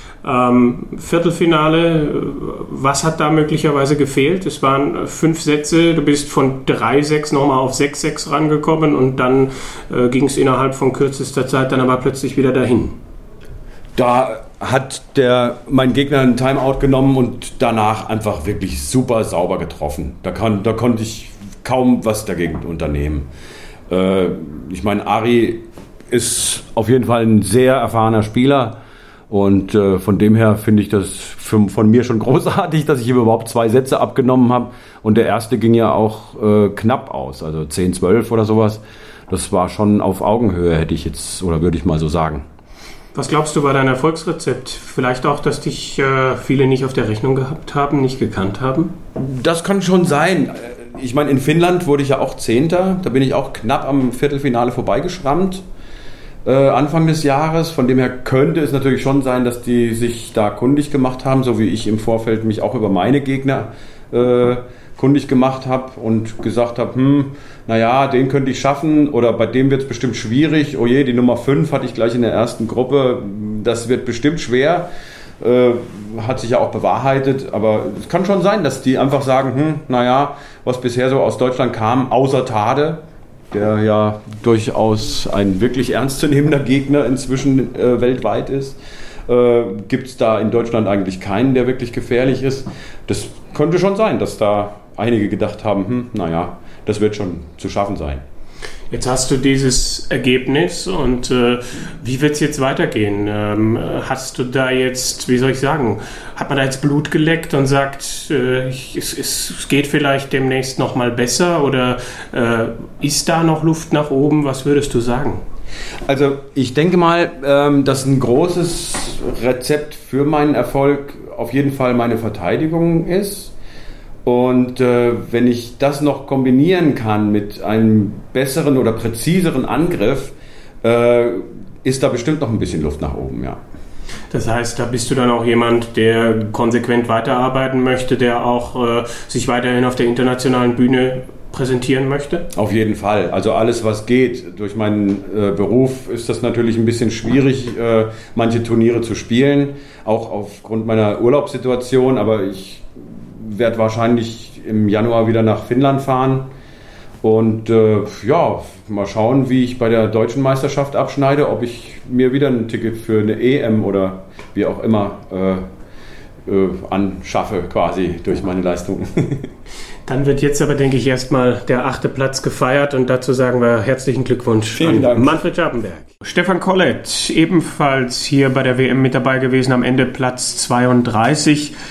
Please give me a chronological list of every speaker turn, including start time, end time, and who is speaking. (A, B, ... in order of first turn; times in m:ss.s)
0:00.2-0:13.0 A
0:14.0-0:23.3 B
0:23.9-0:28.8 B
0:29.3-0:42.4 B
0:43.2-0:48.9 A
0:49.2-0:55.6 B
0:56.4-1:38.2 B
1:38.9-1:55.4 A
1:56.1-2:03.5 B
2:04.2-2:13.6 B
2:14.3-2:22.4 A
2:22.5-2:36.5 B
2:37.2-2:45.7 B
2:46.5-2:49.5 B
2:50.1-3:01.7 A
2:54.8-2:55.4 B